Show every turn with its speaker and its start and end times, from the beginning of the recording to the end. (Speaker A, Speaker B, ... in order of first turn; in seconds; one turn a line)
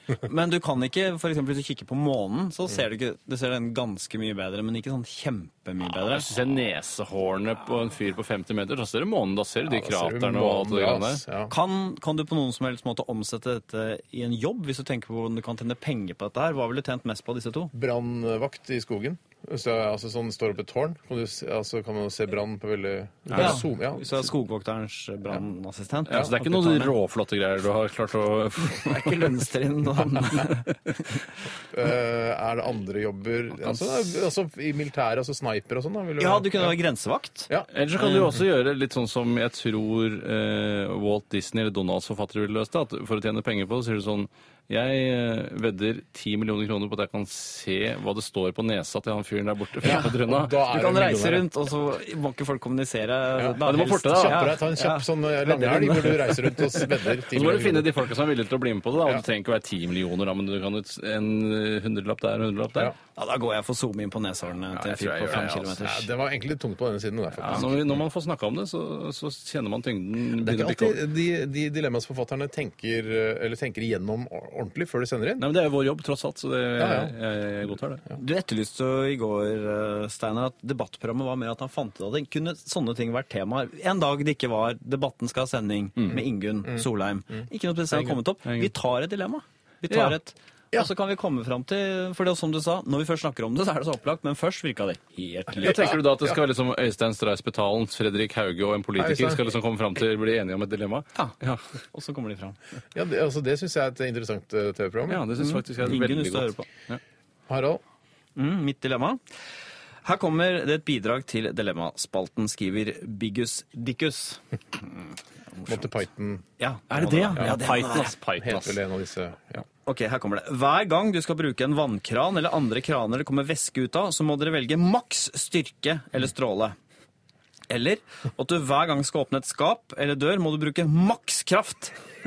Speaker A: 0.2-6.3
Speaker B: 5.9-11.2
Speaker C: 9.7-11.5
Speaker A: 11.5-17.7
Speaker C: 17.7-24.2
Speaker B: 23.3-23.6
Speaker A: 23.3-26.9
Speaker B: 26.1-29.4
Speaker A: 28.7-30.8
Speaker C: 31.7-36.8
Speaker A: 36.2-37.5
Speaker B: 37.7-50.6
Speaker C: 49.8-51.5
Speaker A: 49.8-56.9
Speaker C: 53.4-57.9
Speaker B: 53.6-54.5
Speaker B: 57.3-62.9
Speaker A: 63.1-66.1
Speaker B: 64.7-65.8
Speaker C: 65.3-68.0
Speaker B: 67.4-71.0
Speaker C: 70.4-75.5
Speaker B: 75.4-78.0
Speaker C: 76.8-77.1
Speaker A: 78.2-96.0
Speaker B: 88.5-88.7
Speaker B: 89.9-90.2
Speaker B: 95.6-101.6
Speaker C: 95.6-96.0
Speaker C: 99.0-99.4
Speaker A: 101.9-102.6
Speaker C: 103.0-105.2
Speaker B: 105.1-107.0
Speaker A: 105.3-106.7
Speaker C: 107.5-107.8
Speaker A: 108.4-109.2
Speaker A: 110.0-116.0
Speaker C: 115.7-116.4
Speaker A: 116.6-118.1
Speaker B: 116.9-118.8
Speaker C: 117.4-117.7
Speaker C: 118.4-119.7
Speaker A: 119.8-126.8
Speaker A: 127.7-131.9